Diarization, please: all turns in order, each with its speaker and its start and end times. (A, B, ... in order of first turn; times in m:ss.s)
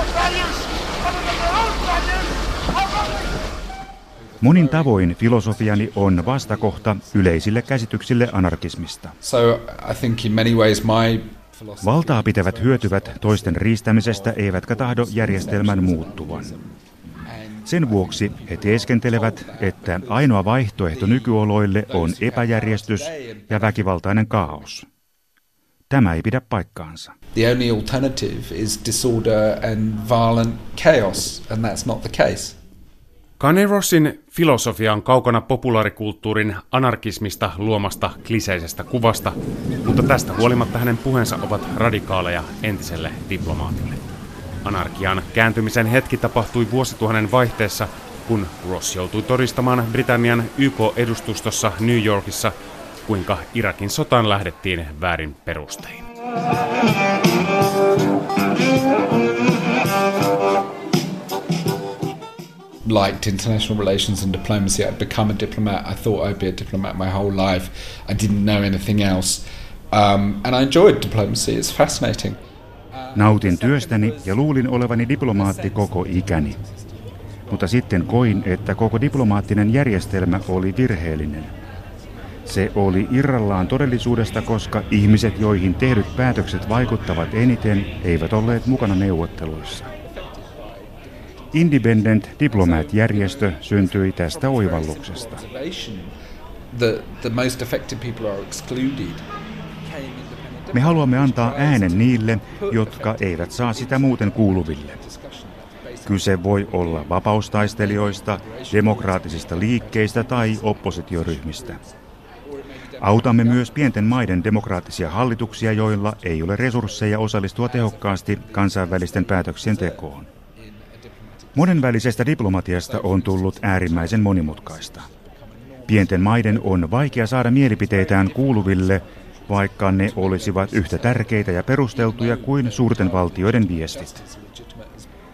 0:04.2-0:08.7 A
0:04.4-0:09.2 B
0:09.2-0:23.9 A
0:11.8-0:16.5 B
0:17.7-0:24.9 B
0:25.9-0:27.2 B
0:27.3-0:32.6 A
0:33.4-0:44.0 C
0:44.6-0:52.6 C
0:53.1-0:56.1 C
1:02.8-1:12.4 A
1:12.9-1:17.9 A
1:13.2-1:16.6 B
1:17.5-1:21.5 B
1:19.0-1:22.7 A
1:22.5-1:29.9 B
1:26.4-1:26.7 A
1:29.9-1:36.2 A
1:31.5-1:35.4 B
1:36.7-1:39.3 A
1:39.8-2:15.1 A
1:40.7-1:45.0 B
1:46.1-1:51.8 B
1:53.0-2:00.3 B
2:01.6-2:05.1 B
2:05.9-2:14.2 B